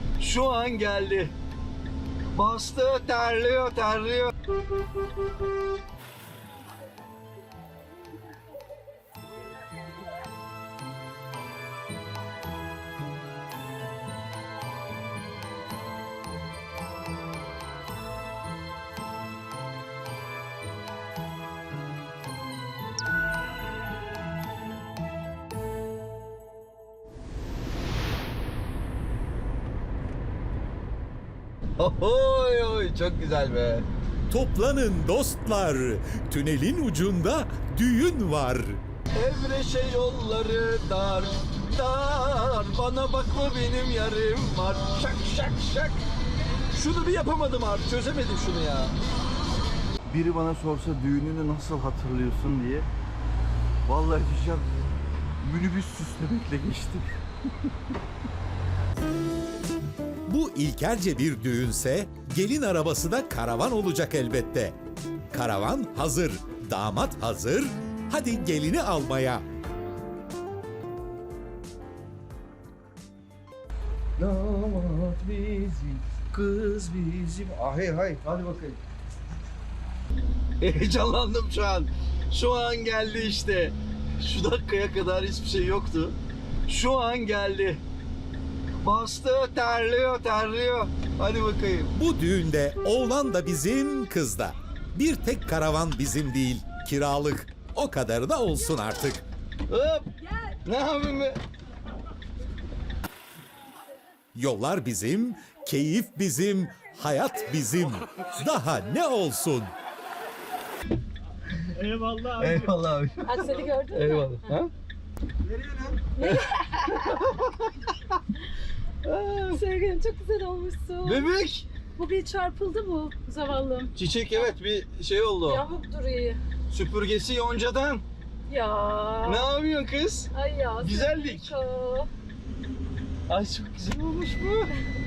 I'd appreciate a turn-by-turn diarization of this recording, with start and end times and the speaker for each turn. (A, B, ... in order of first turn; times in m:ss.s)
0:00.2-0:01.3 A
0:02.3-0:04.3 A
0:31.8-0:33.9 A
0:34.3-0:38.8 B
0:39.1-0:46.0 A
0:46.7-0:49.0 A
0:50.0-0:52.9 A
0:53.9-0:54.8 A
0:55.4-0:57.1 A
1:00.3-1:04.8 B
1:05.3-1:09.4 B
1:14.2-1:18.8 A
1:20.6-1:26.2 A
1:26.7-1:27.8 A
1:28.8-1:31.9 A
1:32.0-1:39.2 B
1:39.7-1:40.1 A
1:40.6-1:41.4 A
1:44.4-1:49.7 B
1:51.6-1:54.7 A
1:53.2-1:54.5 C
1:55.4-1:57.9 A
1:56.2-1:57.2 C
1:59.0-1:59.6 A
1:59.5-2:01.3 C
2:01.0-2:01.7 A
2:02.0-2:04.5 C
2:04.0-2:05.6 A
2:05.5-2:06.4 C
2:06.7-2:08.0 A
2:08.5-2:09.5 C
2:09.2-2:10.3 A
2:10.3-2:12.1 C
2:10.8-2:11.5 A
2:13.3-2:14.7 A